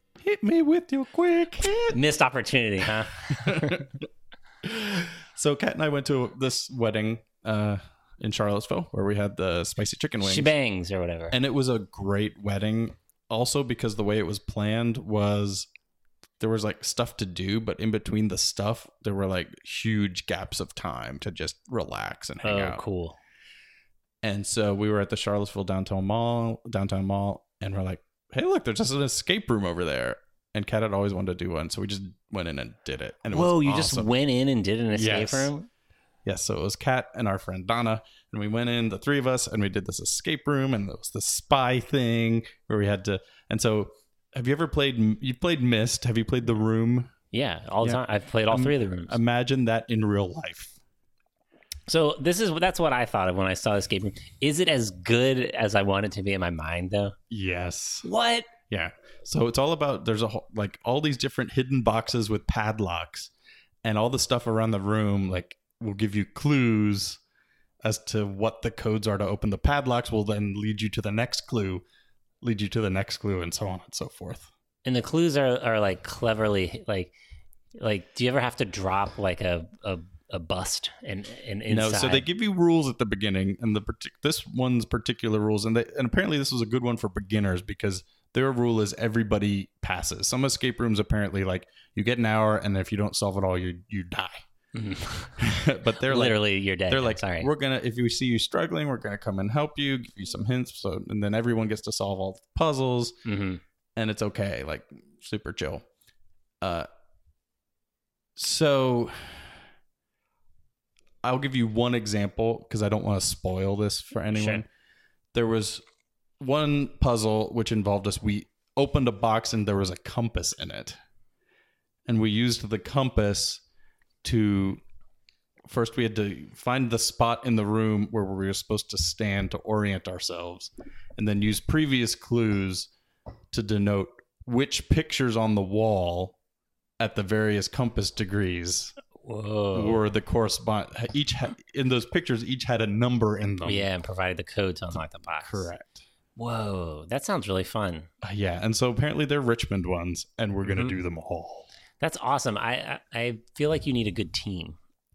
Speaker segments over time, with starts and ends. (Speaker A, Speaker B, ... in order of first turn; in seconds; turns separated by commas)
Speaker A: 0.2-2.0, Speaker B: 1.9-3.9, Speaker A: 3.3-4.0, Speaker A: 4.6-10.5, Speaker B: 10.2-11.3, Speaker A: 11.3-15.7, Speaker A: 16.4-22.8, Speaker B: 22.4-23.2, Speaker A: 24.2-34.1, Speaker B: 33.3-35.7, Speaker A: 34.9-35.5, Speaker A: 36.2-47.1, Speaker B: 47.3-49.2, Speaker A: 47.8-50.8, Speaker B: 51.9-57.1, Speaker A: 57.3-58.0, Speaker B: 58.0-58.5, Speaker A: 58.7-63.3, Speaker A: 63.8-67.2, Speaker A: 67.8-71.8, Speaker A: 72.4-74.5, Speaker B: 74.8-77.1, Speaker B: 77.8-82.2, Speaker A: 81.7-94.4, Speaker B: 94.7-95.4, Speaker A: 95.4-103.2, Speaker B: 96.0-97.5, Speaker B: 103.2-103.6, Speaker A: 104.0-105.8, Speaker A: 106.6-106.9, Speaker A: 108.3-109.5, Speaker A: 111.2-114.7, Speaker B: 114.3-114.6, Speaker A: 115.3-115.8, Speaker A: 116.4-121.0, Speaker A: 122.1-123.6, Speaker A: 124.2-124.8, Speaker A: 125.7-132.9, Speaker A: 133.5-136.3, Speaker A: 137.0-138.9, Speaker B: 139.2-140.0, Speaker A: 139.7-143.9, Speaker B: 143.6-145.7, Speaker A: 145.4-146.0, Speaker B: 146.3-148.1, Speaker A: 148.2-151.7, Speaker B: 150.6-150.9, Speaker B: 152.0-154.8